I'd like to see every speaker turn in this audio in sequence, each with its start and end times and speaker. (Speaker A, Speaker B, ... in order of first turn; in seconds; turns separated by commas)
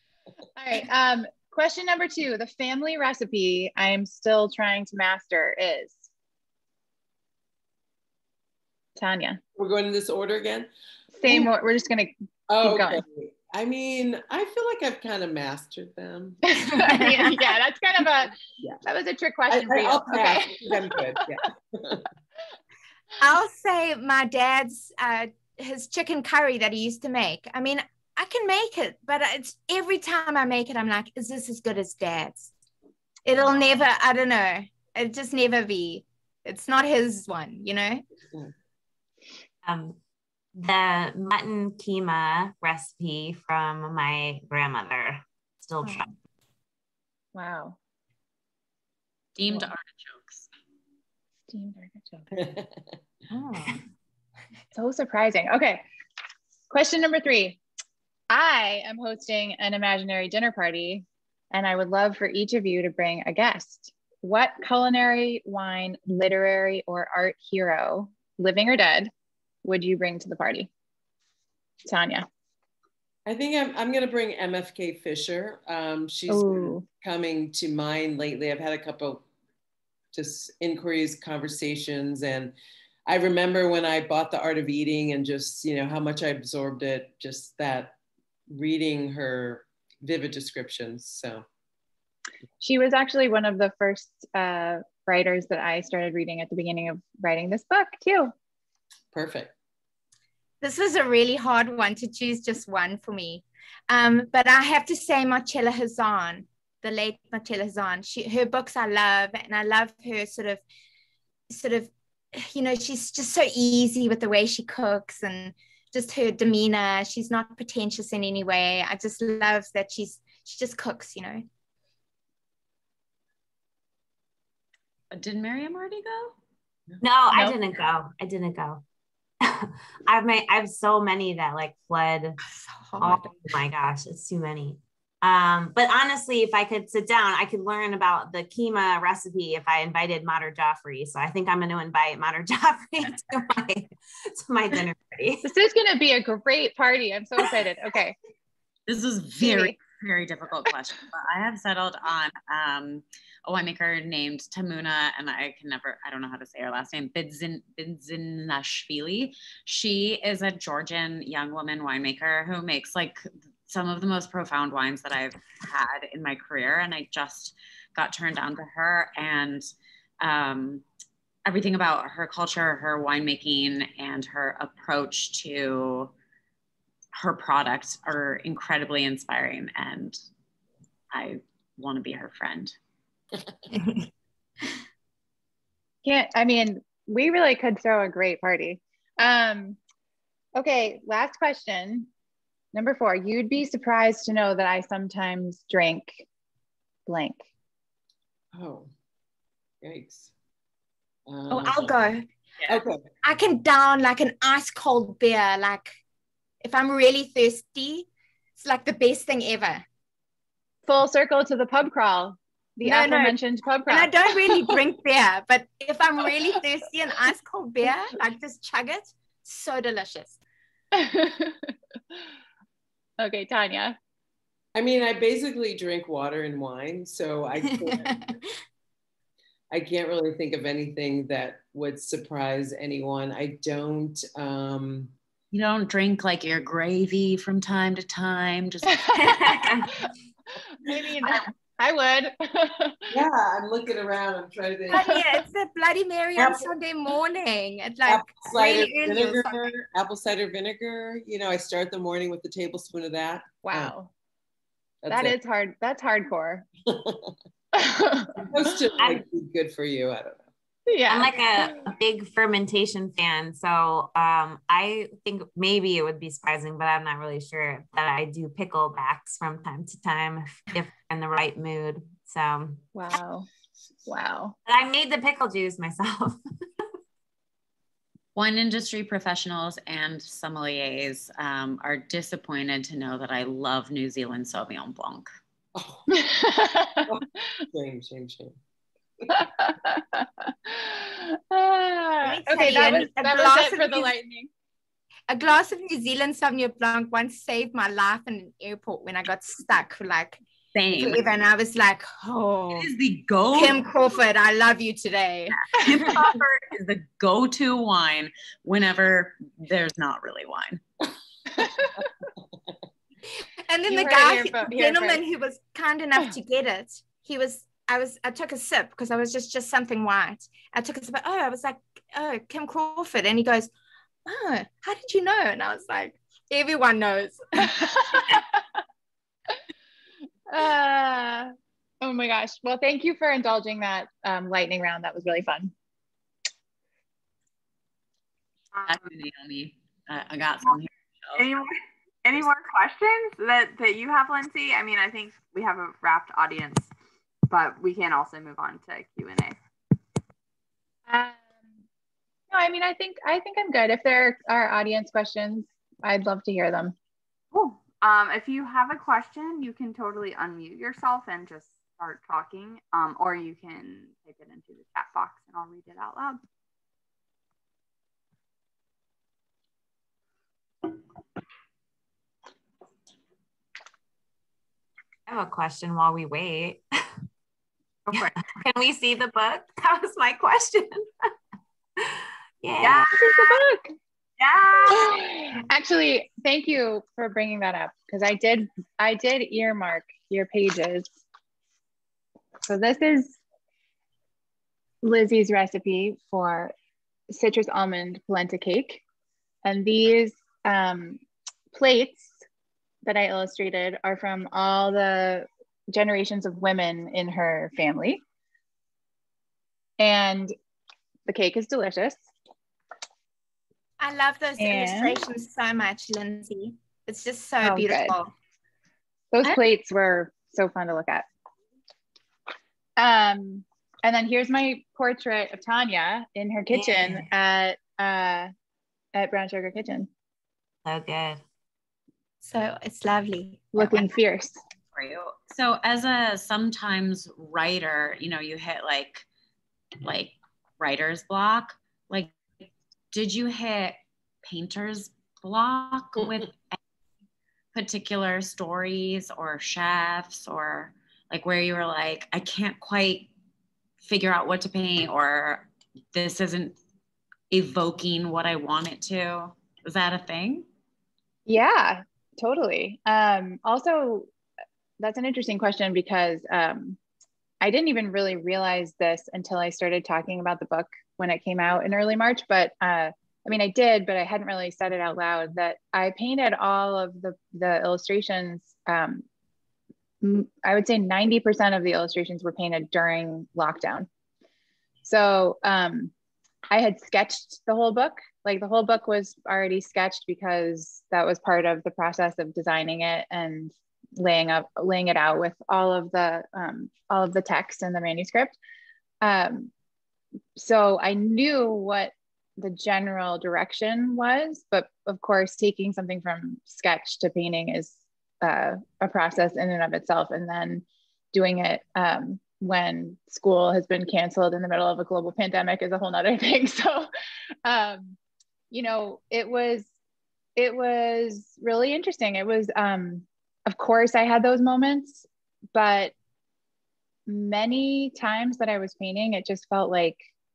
Speaker A: 0.6-6.1, Speaker A: 9.0-9.4, Speaker B: 9.6-10.7, Speaker A: 11.2-13.0, Speaker B: 12.5-16.4, Speaker A: 16.5-21.2, Speaker B: 19.5-22.1, Speaker C: 23.2-32.5, Speaker C: 33.2-38.0, Speaker D: 39.6-40.0, Speaker D: 40.5-46.1, Speaker C: 45.8-46.1, Speaker A: 47.3-47.8, Speaker E: 49.4-50.5, Speaker A: 51.5-52.3, Speaker B: 52.3-52.8, Speaker C: 53.3-53.9, Speaker A: 54.8-55.8, Speaker A: 56.7-57.6, Speaker A: 58.3-69.1, Speaker A: 69.6-70.7, Speaker A: 71.9-72.3, Speaker B: 73.3-79.2, Speaker A: 76.3-76.8, Speaker B: 80.1-82.5, Speaker B: 83.1-88.0, Speaker B: 88.5-91.5, Speaker A: 92.6-98.3, Speaker B: 99.1-99.5, Speaker C: 100.6-110.6, Speaker C: 111.5-121.5, Speaker E: 125.1-126.4, Speaker D: 127.0-128.8, Speaker D: 129.4-132.4, Speaker C: 132.6-133.4, Speaker D: 133.0-145.5, Speaker A: 145.4-148.2, Speaker E: 148.9-169.7, Speaker A: 149.4-149.8, Speaker E: 170.2-170.8, Speaker E: 171.5-176.1, Speaker E: 177.1-180.2, Speaker E: 181.1-182.8, Speaker C: 183.7-184.1, Speaker A: 186.0-189.8, Speaker A: 190.6-192.1, Speaker A: 192.7-196.3, Speaker A: 197.1-197.5, Speaker B: 198.5-198.9, Speaker B: 199.8-200.3, Speaker B: 201.3-202.0, Speaker C: 201.5-202.3, Speaker B: 202.7-203.0, Speaker C: 203.2-206.0, Speaker C: 206.6-208.1, Speaker C: 208.6-209.8, Speaker A: 210.9-214.7, Speaker C: 212.8-213.4, Speaker C: 213.9-220.4, Speaker A: 220.9-221.7, Speaker A: 223.2-224.0, Speaker B: 224.8-228.1, Speaker C: 227.8-228.3, Speaker B: 229.7-235.1, Speaker E: 235.5-239.7, Speaker A: 239.1-240.1, Speaker A: 240.8-243.0, Speaker B: 243.1-245.1, Speaker C: 244.9-249.7, Speaker B: 246.4-246.7, Speaker B: 248.1-253.9, Speaker A: 253.6-254.1, Speaker B: 255.0-255.3, Speaker A: 255.1-256.7, Speaker B: 256.9-257.3, Speaker A: 257.7-258.3, Speaker B: 258.5-260.4, Speaker D: 259.0-259.2, Speaker A: 260.9-261.8, Speaker D: 261.1-272.8, Speaker A: 272.9-273.5, Speaker A: 274.1-274.6, Speaker D: 274.7-276.4, Speaker E: 278.4-285.3, Speaker B: 285.8-286.2, Speaker A: 286.1-287.1, Speaker B: 287.1-288.6, Speaker A: 289.3-294.5, Speaker C: 292.2-294.1, Speaker C: 295.3-300.4, Speaker E: 300.8-301.3, Speaker C: 300.9-302.9, Speaker E: 302.7-303.9, Speaker C: 303.5-306.2, Speaker E: 305.5-310.8, Speaker A: 311.6-311.9, Speaker C: 313.4-323.7, Speaker A: 313.9-315.2, Speaker C: 324.3-328.4, Speaker A: 327.8-328.4, Speaker A: 330.5-335.7, Speaker E: 338.9-341.5, Speaker F: 341.4-346.9, Speaker F: 347.5-349.6, Speaker A: 351.1-351.4, Speaker A: 352.5-356.9, Speaker F: 357.5-366.4, Speaker D: 375.3-377.1, Speaker D: 378.1-381.1, Speaker D: 382.0-383.1, Speaker F: 382.8-383.6, Speaker A: 383.1-383.9, Speaker F: 384.4-385.3, Speaker A: 384.9-391.1, Speaker A: 392.7-393.4, Speaker A: 395.0-396.7, Speaker A: 397.3-399.0, Speaker A: 399.6-401.2, Speaker A: 401.7-402.4, Speaker A: 403.1-408.2, Speaker A: 410.0-410.5, Speaker A: 411.3-412.2, Speaker C: 414.0-418.3, Speaker A: 414.6-415.2, Speaker A: 417.6-418.1, Speaker A: 419.3-421.3, Speaker A: 423.0-428.5, Speaker D: 426.7-427.3, Speaker A: 429.1-430.1, Speaker D: 430.9-431.4, Speaker C: 432.4-434.1, Speaker A: 433.7-434.6, Speaker E: 434.9-439.3, Speaker E: 440.0-442.5, Speaker E: 443.1-446.8, Speaker E: 447.7-453.3, Speaker E: 454.0-456.8, Speaker E: 457.5-460.7, Speaker A: 461.5-464.3, Speaker A: 465.0-467.0, Speaker A: 467.6-479.2, Speaker A: 480.2-484.1, Speaker A: 485.0-486.1, Speaker A: 486.7-498.6, Speaker A: 499.2-499.7, Speaker A: 500.6-517.1, Speaker A: 517.6-518.2, Speaker A: 518.7-519.9, Speaker A: 520.6-526.1, Speaker A: 527.3-530.2